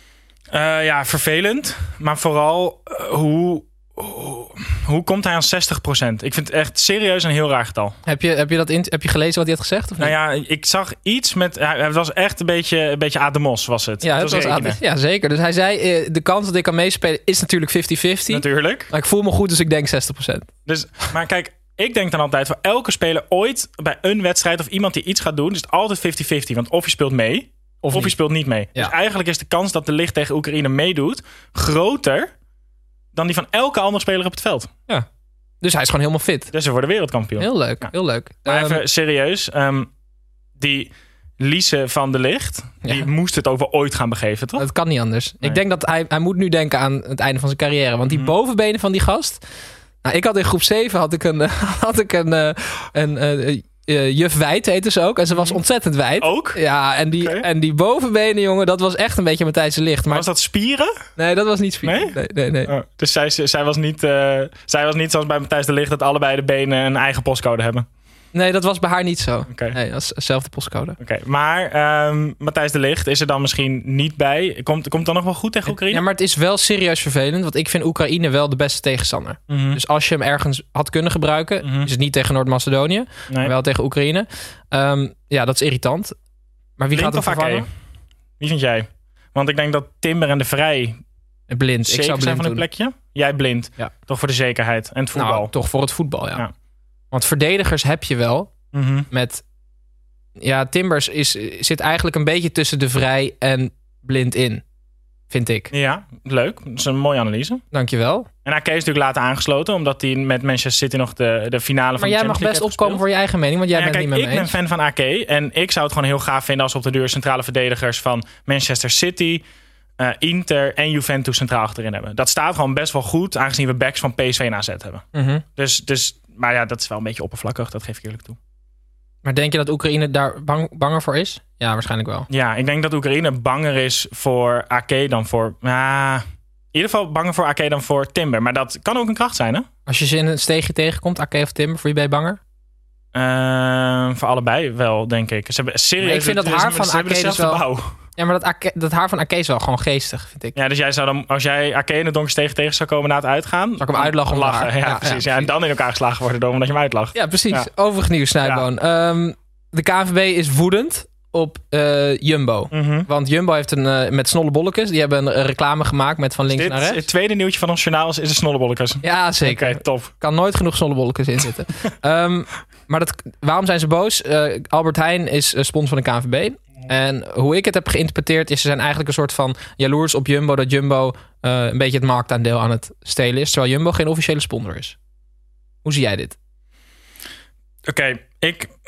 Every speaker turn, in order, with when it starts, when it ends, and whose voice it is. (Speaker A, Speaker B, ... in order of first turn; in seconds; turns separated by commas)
Speaker A: 0.5-8.0, Speaker B: 8.1-10.1, Speaker A: 10.0-14.8, Speaker B: 14.0-20.5, Speaker A: 18.3-18.9, Speaker A: 20.6-32.3, Speaker B: 27.8-28.2, Speaker A: 33.1-34.7, Speaker B: 35.6-36.5, Speaker A: 36.5-37.9, Speaker B: 37.4-38.8, Speaker A: 38.5-39.9, Speaker A: 40.6-44.6, Speaker B: 44.6-49.4, Speaker A: 48.1-48.3, Speaker B: 50.0-60.3, Speaker A: 55.3-55.6, Speaker A: 56.2-56.6, Speaker A: 57.2-57.5, Speaker A: 60.1-60.9, Speaker B: 61.2-62.7, Speaker A: 61.8-67.8, Speaker B: 68.3-71.0, Speaker A: 69.5-69.8, Speaker A: 71.0-76.0, Speaker B: 75.7-86.2, Speaker A: 79.5-79.8, Speaker A: 81.6-81.9, Speaker B: 86.8-87.7, Speaker A: 86.9-87.7, Speaker A: 88.4-91.0, Speaker B: 91.5-92.6, Speaker A: 91.8-95.5, Speaker B: 95.1-96.5, Speaker B: 97.1-98.5, Speaker A: 98.7-99.1, Speaker B: 99.1-99.4, Speaker B: 100.4-104.6, Speaker B: 105.3-105.7, Speaker A: 105.7-107.6, Speaker B: 107.7-108.3, Speaker A: 108.4-113.0, Speaker B: 112.0-114.5, Speaker A: 113.7-119.4, Speaker A: 120.0-125.0, Speaker B: 125.1-125.4, Speaker A: 125.5-128.4, Speaker B: 129.2-132.3, Speaker A: 132.3-139.7, Speaker B: 139.8-142.4, Speaker A: 143.1-147.9, Speaker B: 146.0-147.6, Speaker B: 148.2-150.5, Speaker A: 150.5-157.7, Speaker B: 153.8-155.5, Speaker B: 157.1-167.0, Speaker A: 162.7-163.1, Speaker A: 166.5-170.1, Speaker B: 169.0-184.9, Speaker B: 185.8-186.3, Speaker A: 187.8-188.7